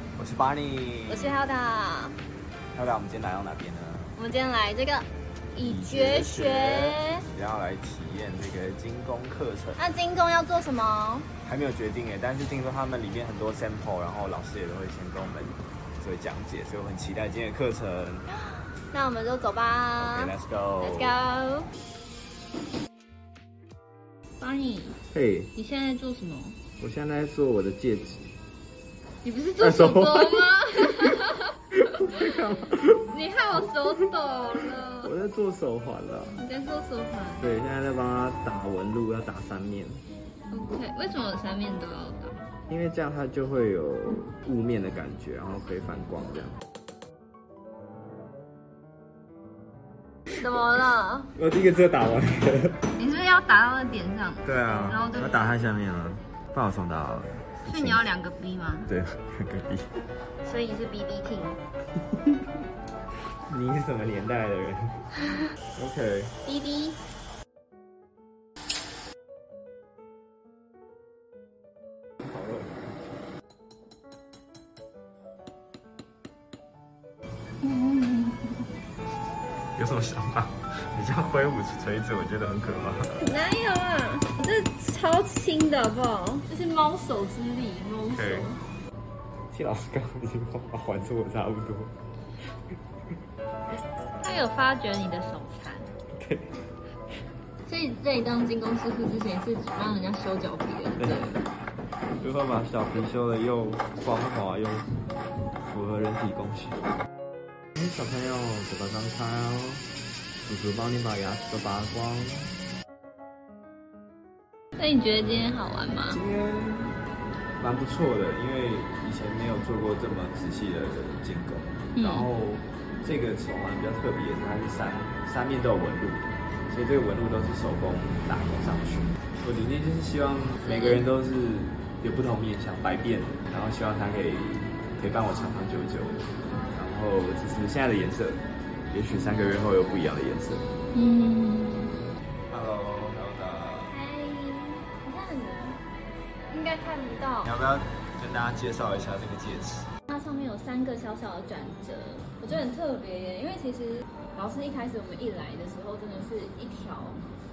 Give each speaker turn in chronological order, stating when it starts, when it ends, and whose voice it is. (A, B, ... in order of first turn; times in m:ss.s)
0:00.2-0:01.4 A
0:01.1-0:02.2 B
0:02.7-0:04.2 A
0:04.2-0:07.2 B
0:05.6-0:09.8 A
0:09.8-0:11.3 B
0:11.4-0:18.2 A
0:18.3-0:21.7 B
0:20.0-0:21.2 A
0:24.4-0:25.0 B
0:25.1-0:25.5 A
0:25.6-0:26.6 B
0:26.8-0:28.3 A
0:29.2-0:32.3 B
0:29.6-0:30.5 A
0:31.7-0:33.1 A
0:33.1-0:35.1 B
0:35.0-0:36.4 A
0:36.4-0:37.5 B
0:37.4-0:40.0 A
0:40.5-0:42.4 B
0:42.7-0:46.6 A
0:50.4-0:51.3 B
0:51.4-0:52.8 A
0:53.0-0:55.6 B
0:54.4-0:58.1 A
0:57.7-0:58.9 B
0:58.9-0:59.9 A
1:00.4-1:01.6 B
1:03.5-1:05.1 A
1:05.8-1:06.4 A
1:06.5-1:07.0 B
1:12.2-1:13.0 A
1:17.6-1:18.6 B
1:19.8-1:23.3 A
1:23.2-1:28.6 B
1:28.1-1:28.5 A
1:29.5-1:31.9 A
1:34.2-1:35.9 B
1:36.2-1:36.5 A
1:37.7-1:41.4 B
1:41.0-1:41.4 A
1:42.2-1:45.0 A
1:45.6-1:46.8 A
1:47.8-1:49.9 A
1:50.4-1:52.5 A
1:54.8-1:56.2 B
1:56.1-1:57.0 A
1:57.6-2:20.7 A
2:02.0-2:02.3 B
2:10.6-2:11.0 B
2:20.9-2:21.9 B
2:22.5-2:24.0 A
2:23.9-2:25.8 B
2:26.5-2:27.5 B
2:27.4-2:29.9 A
2:30.1-2:37.2 B